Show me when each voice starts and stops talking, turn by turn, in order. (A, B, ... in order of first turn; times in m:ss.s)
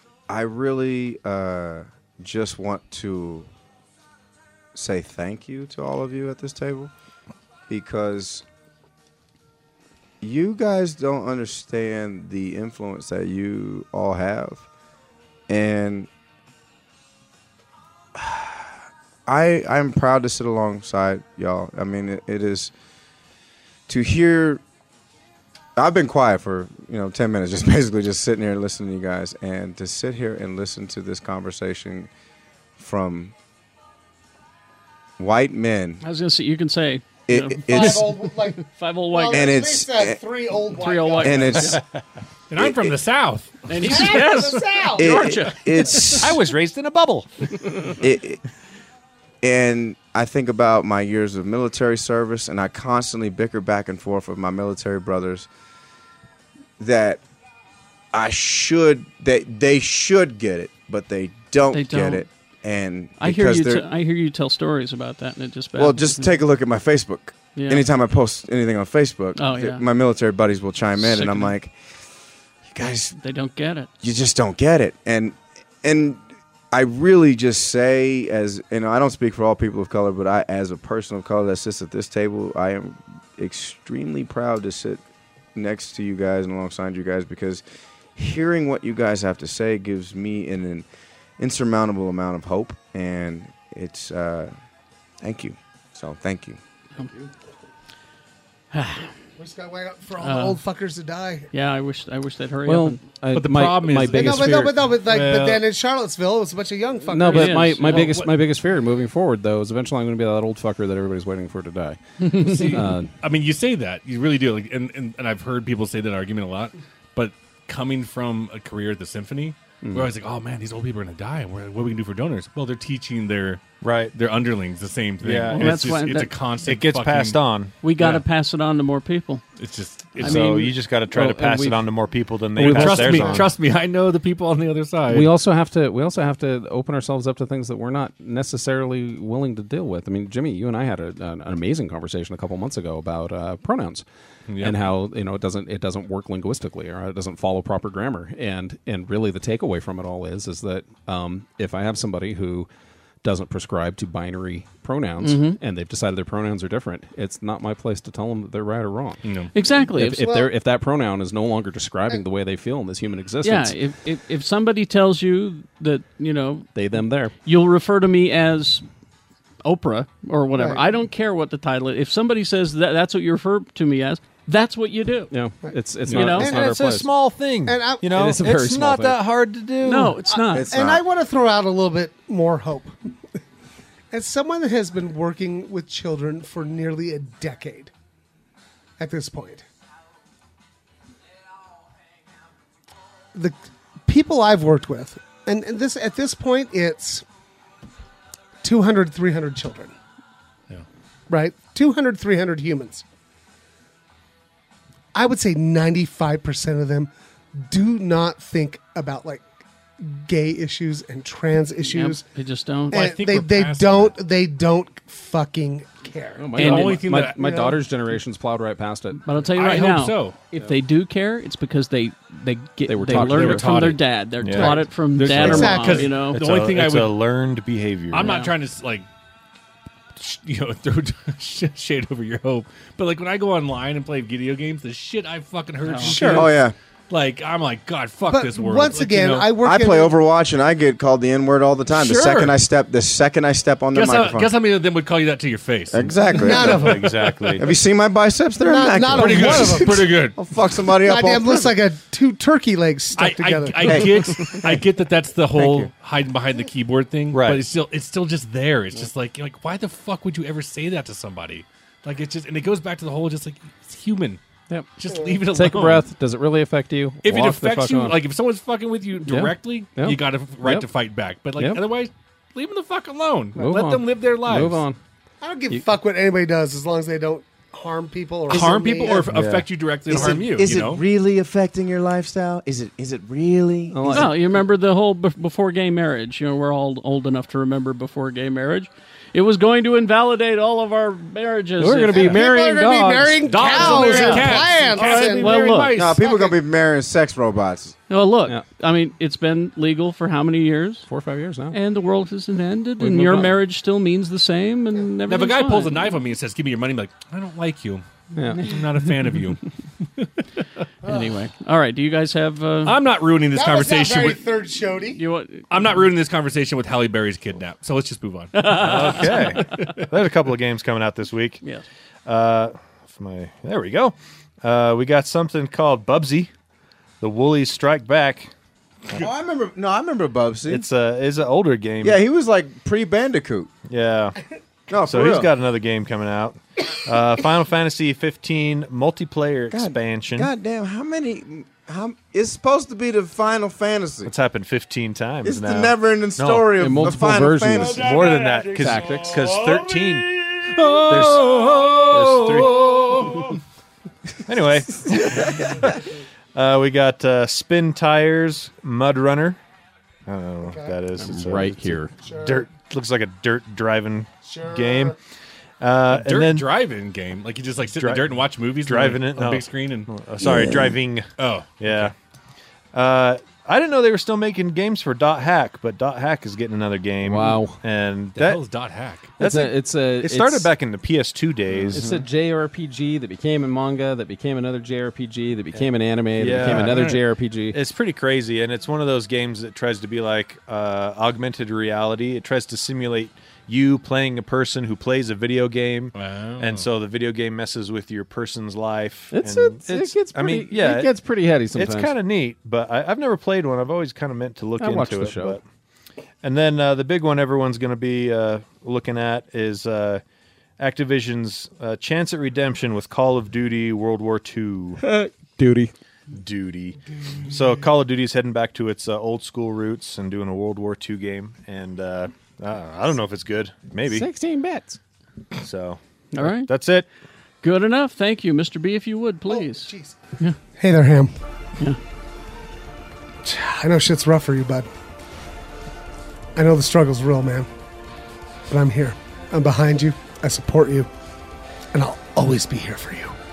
0:00.3-0:03.5 A
0:04.7-0:06.9 A
0:07.7-0:08.4 A
0:10.2-0:14.6 A
0:15.5-0:16.1 A
0:18.2-0:18.7 A
0:19.3-0:22.7 A
0:23.9-0:24.6 A
0:25.8-0:32.1 A
0:32.8-0:33.3 A
0:35.2-0:36.0 A
0:36.0-0:38.0 B
0:37.3-0:38.1 A
0:37.7-0:41.7 C
0:38.6-0:39.7 B
0:39.3-0:40.2 A
0:40.8-0:41.8 B
0:41.2-0:41.8 A
0:42.5-0:44.3 D
0:42.6-0:43.0 A
0:43.7-0:46.4 B
0:43.8-0:45.4 C
0:45.0-0:46.4 A
0:46.0-0:47.3 E
0:48.0-0:48.4 A
0:49.4-0:55.5 A
0:56.8-0:57.2 A
0:58.1-1:03.9 A
1:01.7-1:02.2 B
1:03.2-1:06.4 B
1:05.8-1:11.7 A
1:07.6-1:07.8 B
1:09.4-1:09.8 B
1:11.0-1:11.5 B
1:12.7-1:13.2 A
1:13.1-1:13.9 B
1:14.0-1:25.0 A
1:25.6-1:27.6 A
1:28.2-1:30.9 A
1:31.4-1:34.5 A
1:35.2-1:36.6 A
1:37.1-1:37.3 C
1:38.7-1:39.1 B
1:39.4-1:41.5 C
1:40.2-1:40.6 B
1:41.5-1:43.2 B
1:42.7-1:44.8 F
1:43.3-1:45.6 D
1:44.1-1:47.9 C
1:47.1-1:53.1 F
1:47.3-1:48.1 B
1:47.9-1:48.3 D
1:52.2-1:52.8 B
1:52.4-2:03.6 D
1:59.8-2:00.1 F
2:03.8-2:04.2 E
2:04.1-2:07.4 D
2:05.2-2:05.9 E
2:05.5-2:06.3 B
2:06.6-2:07.8 E
2:07.8-2:09.4 B
2:09.6-2:10.5 D
2:10.2-2:10.7 B
2:10.2-2:13.5 E
2:11.1-2:11.8 F
2:12.6-2:13.4 F
2:12.6-2:15.3 D
2:15.1-2:24.0 F
2:24.5-2:24.8 D
2:24.6-2:32.7 F
2:33.2-2:39.2 F
2:35.2-2:35.6 B
2:39.2-2:39.5 D
2:39.5-2:40.3 B
2:39.9-2:43.8 F
2:40.0-2:40.5 C
2:43.4-2:46.7 B
2:46.7-2:47.4 F
2:47.4-2:48.9 B
2:49.6-2:55.3 B
2:50.6-2:50.8 C
2:55.3-2:57.1 F
2:56.1-2:56.4 D
2:56.1-2:56.5 B
2:56.4-2:56.6 C
2:56.4-3:00.2 E
2:57.7-2:58.1 C
2:58.1-2:59.2 F
2:59.8-3:00.7 B
3:00.3-3:03.0 C
3:00.5-3:01.0 A
3:04.1-3:07.9 C
3:09.0-3:09.6 C
3:13.3-3:17.2 C
3:18.6-3:19.9 C
3:21.3-3:23.0 C
3:25.1-3:29.5 C
3:30.0-3:32.2 C
3:31.8-3:33.0 B
3:32.9-3:37.8 C
3:33.0-3:34.1 D
3:36.4-3:39.2 F
3:36.6-3:37.6 D
3:36.6-3:37.0 B
3:39.2-3:46.4 B
3:39.5-3:40.4 D
3:42.8-3:43.9 F
3:43.1-3:44.1 D
3:44.4-3:44.9 E
3:44.5-3:46.1 F
3:45.2-3:47.2 D
3:45.3-3:46.2 C
3:46.2-3:48.3 E
3:48.1-3:49.1 D
3:48.2-3:48.6 B
3:50.2-3:59.5 D
3:55.8-3:56.4 B
3:56.0-3:56.5 C
3:56.3-3:56.7 A
3:58.3-4:00.2 C
3:59.6-4:04.5 A
4:01.9-4:02.6 D
4:03.9-4:07.6 D
4:05.9-4:06.9 A
4:06.4-4:07.1 C
4:06.5-4:07.7 E
4:07.6-4:11.8 A
4:08.6-4:10.2 C
4:09.1-4:10.4 D
4:11.0-4:14.6 C
4:13.2-4:24.4 D
4:13.9-4:14.6 A
4:17.3-4:17.6 E
4:25.0-4:26.1 D
4:25.2-4:25.4 C
4:25.5-4:28.2 F
4:27.2-4:34.8 D
4:29.3-4:30.9 F
4:31.6-4:31.8 F
4:33.6-4:35.0 F
4:35.4-4:39.4 C
4:38.5-4:41.0 D
4:39.3-4:39.7 E
4:40.1-4:44.3 A
4:43.9-4:44.4 F
4:44.1-4:52.4 B
4:51.8-4:53.6 F
4:52.1-4:56.6 C
4:53.4-4:56.2 D
4:53.7-4:56.0 B
4:56.0-4:58.0 A
4:58.1-5:01.1 B
5:01.1-5:01.8 F
5:01.7-5:06.1 B
5:03.0-5:03.6 F
5:05.3-5:08.0 D
5:08.4-5:08.8 F
5:08.6-5:09.6 D
5:11.0-5:13.0 B
5:11.0-5:11.4 C
5:12.8-5:14.4 D
5:13.5-5:15.2 C
5:15.1-5:16.0 B
5:15.7-5:19.9 D
5:18.5-5:19.9 B
5:18.7-5:21.6 E
5:22.3-5:26.5 E
5:27.2-5:28.5 E
5:29.2-5:30.9 A
5:30.7-5:32.2 E
5:32.0-5:33.7 A
5:33.9-5:34.4 E
5:34.9-5:35.5 A
5:35.0-5:40.5 E
5:39.7-5:44.3 A
5:44.2-5:46.7 E
5:45.4-5:48.3 A
5:46.8-5:49.6 F
5:47.7-5:50.6 E
5:49.0-5:49.3 D
5:50.6-5:53.6 D
5:51.1-5:53.4 E
5:54.4-5:56.0 E
5:56.6-5:59.6 E
6:00.3-6:05.2 E
6:00.7-6:01.0 C
6:01.2-6:02.2 F
6:02.2-6:02.7 C
6:04.4-6:05.2 C
6:05.8-6:06.7 E
6:06.1-6:10.1 D
6:08.0-6:08.3 E
6:08.9-6:11.3 E
6:10.4-6:10.9 A
6:11.4-6:12.1 D
6:11.8-6:12.1 E
6:12.9-6:18.6 E
6:17.2-6:17.8 F
6:18.4-6:19.4 D
6:19.4-6:20.7 F
6:19.4-6:22.2 E
6:21.9-6:27.8 F
6:26.4-6:27.2 E
6:26.6-6:27.2 D
6:27.7-6:41.1 E
6:36.2-6:36.9 D
6:39.3-6:42.1 F
6:41.7-6:45.6 E
6:44.8-6:45.6 F
6:46.4-6:50.2 E
6:50.8-6:55.0 E
6:55.0-6:55.9 F
6:56.3-7:04.3 E
7:04.1-7:05.0 F
7:05.6-7:07.1 E
7:06.3-7:06.7 B
7:07.6-7:10.6 B
7:09.5-7:10.2 C
7:10.8-7:11.3 C
7:13.4-7:14.9 C
7:16.6-7:17.7 C
7:18.7-7:21.1 C
7:21.9-7:23.4 C